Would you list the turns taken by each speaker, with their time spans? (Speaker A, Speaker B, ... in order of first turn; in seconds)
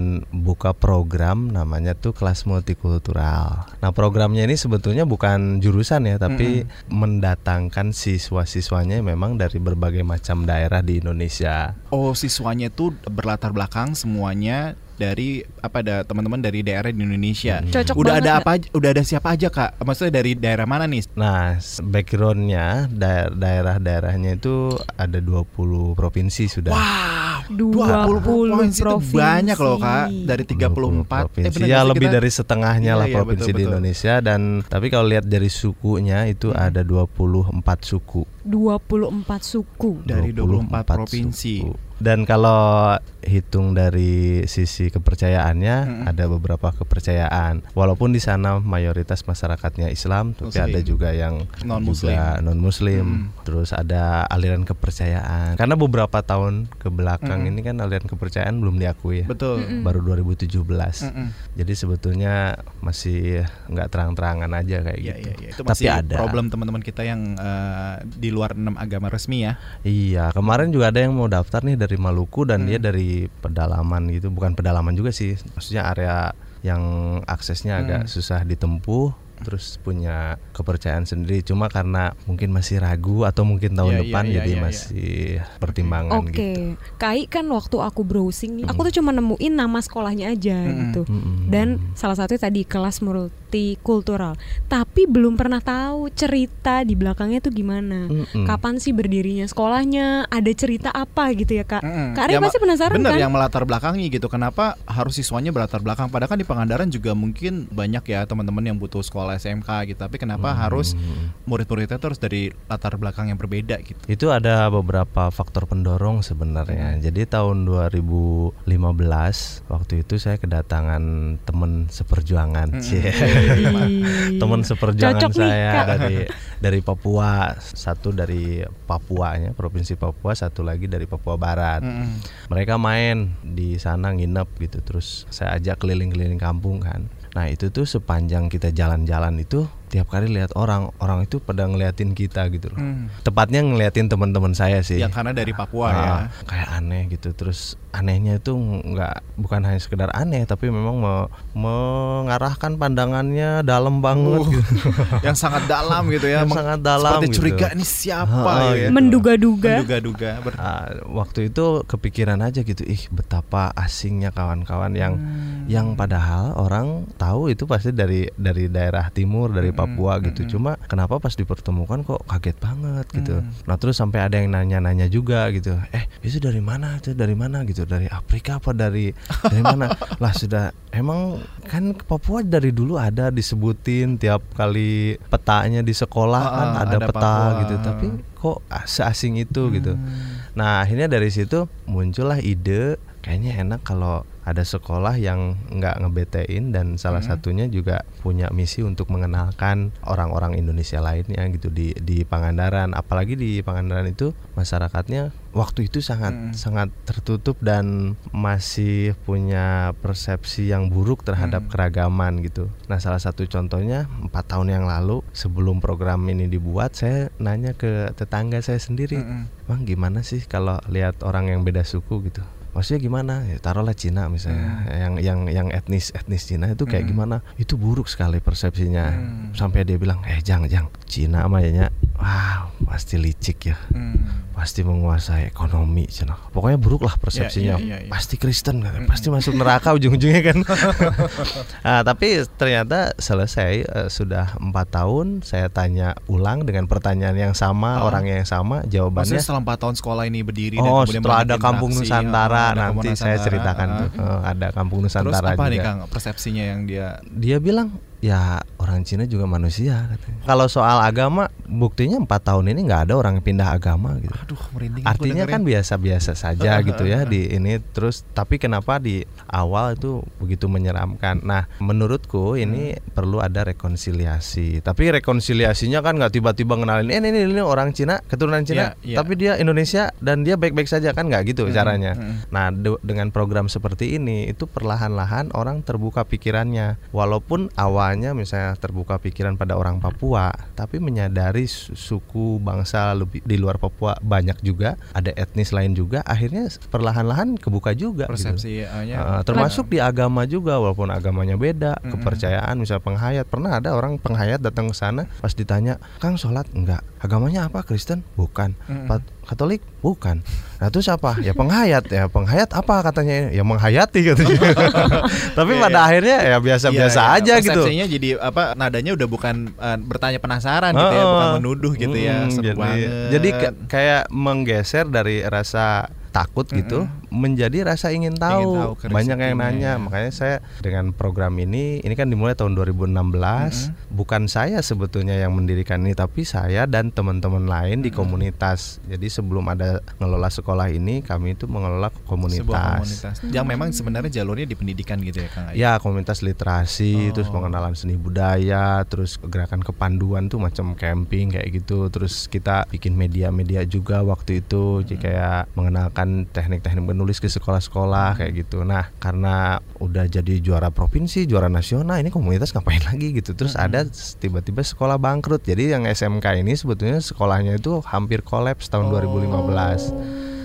Speaker A: 0.3-11.7, 17.5-18.0, 21.2-26.8, 27.8-28.3, 30.5-38.3, 40.0-59.3, 59.8-66.4, 69.8-86.6, 91.1-91.8, 98.1-98.6, 110.4-111.3, 114.1-157.7, 158.3-159.2, 160.6-190.0, 190.6-233.8, 234.5-249.4, 250.8-255.9, 257.4-264.4, 265.1-298.6, 299.1-317.9, 320.9-343.2, 345.7-370.1
Speaker B: 6.3-6.6, 11.9-21.1, 26.7-32.2, 32.8-33.8, 36.5-36.7, 40.1-41.6, 45.9-46.1, 50.4-50.9, 51.6-52.4, 52.9-53.3, 57.2-57.5, 59.3-59.8, 61.0-61.3, 65.0-69.6, 77.8-78.1, 83.8-84.9, 85.7-86.0, 90.7-91.0, 101.8-110.9, 111.5-114.0, 116.7-117.0, 122.7-123.9, 125.8-126.1, 131.8-132.2, 142.8-143.1, 145.0-146.3, 154.2-158.9, 159.6-160.6, 165.0-166.1, 169.6-170.6, 173.1-173.5, 179.4-180.1, 186.4-188.1, 189.6-190.4, 197.1-197.4, 206.3-206.6, 211.4-211.7, 219.1-219.5, 224.5-224.8, 226.9-227.2, 229.1-229.6, 233.9-234.5, 237.3-238.2, 239.0-239.4, 240.8-241.5, 247.9-248.2, 249.2-254.1, 255.2-257.1, 264.3-265.6, 266.6-267.4, 272.6-272.9, 278.7-279.3, 281.7-282.4, 298.3-299.8, 302.1-302.5, 308.9-309.2, 314.5-316.1, 316.9-323.8, 326.7-327.1, 328.5-330.1, 333.6-333.9, 338.0-338.4, 342.5-345.8, 347.2-347.8, 355.1-355.3, 358.2-358.6, 363.6-364.1, 369.0-370.3
Speaker C: 17.7-18.4, 27.5-30.3, 38.5-40.0, 59.6-59.9, 86.1-103.3, 123.2-125.9, 158.9-159.8, 237.6-237.9, 254.1-254.3, 343.5-344.3